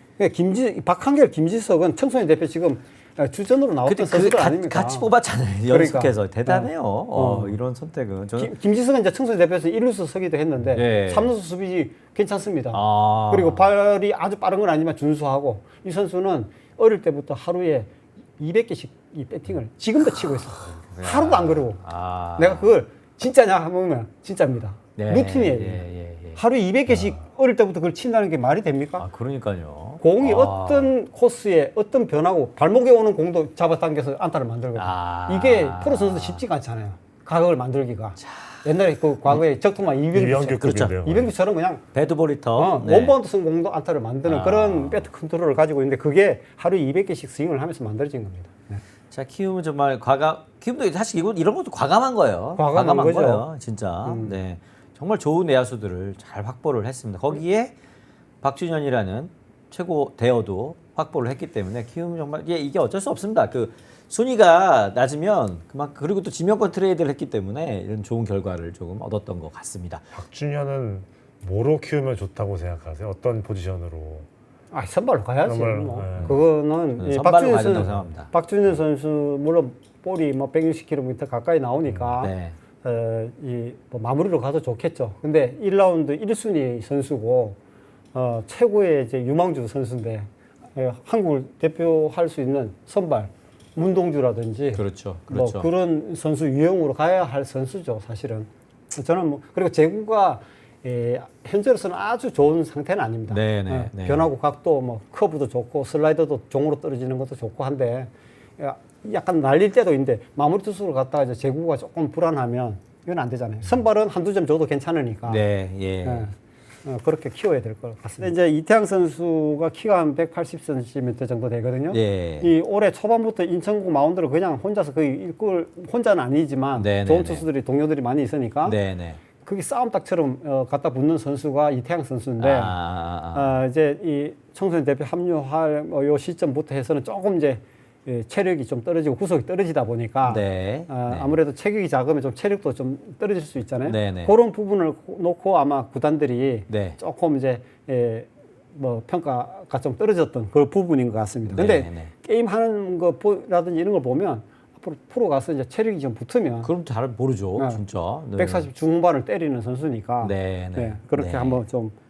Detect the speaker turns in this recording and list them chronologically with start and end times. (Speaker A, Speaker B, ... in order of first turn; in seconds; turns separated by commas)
Speaker A: 0.2-5.1, Speaker B: 3.8-8.5, Speaker A: 5.7-7.6, Speaker A: 8.4-21.8, Speaker B: 10.7-11.3, Speaker B: 12.7-13.7, Speaker B: 20.0-22.8, Speaker A: 22.4-29.1, Speaker B: 24.9-27.1, Speaker B: 29.0-30.9, Speaker A: 30.0-41.8, Speaker B: 34.7-36.4, Speaker B: 38.2-38.7, Speaker C: 40.1-41.3, Speaker B: 40.6-40.9, Speaker B: 41.9-43.1, Speaker A: 42.5-48.8, Speaker B: 44.2-45.1, Speaker B: 49.1-57.7, Speaker A: 52.6-53.5, Speaker A: 54.0-54.3, Speaker B: 58.4-70.1, Speaker C: 70.1-74.3, Speaker A: 74.7-87.6, Speaker C: 75.4-76.4, Speaker B: 77.0-78.3, Speaker B: 82.2-82.6, Speaker A: 88.1-115.4, Speaker B: 94.7-95.7, Speaker B: 103.3-104.3, Speaker B: 115.3-116.3, Speaker A: 116.0-116.3, Speaker A: 116.8-128.8, Speaker B: 121.9-122.5, Speaker B: 126.7-127.5, Speaker B: 128.6-129.2, Speaker A: 129.3-132.8, Speaker B: 132.4-133.6, Speaker A: 133.3-156.7, Speaker B: 140.2-141.4, Speaker B: 143.8-144.3, Speaker B: 146.7-147.0, Speaker B: 151.5-152.1, Speaker B: 156.6-158.7, Speaker A: 157.6-157.8, Speaker A: 158.3-161.9, Speaker B: 160.2-161.6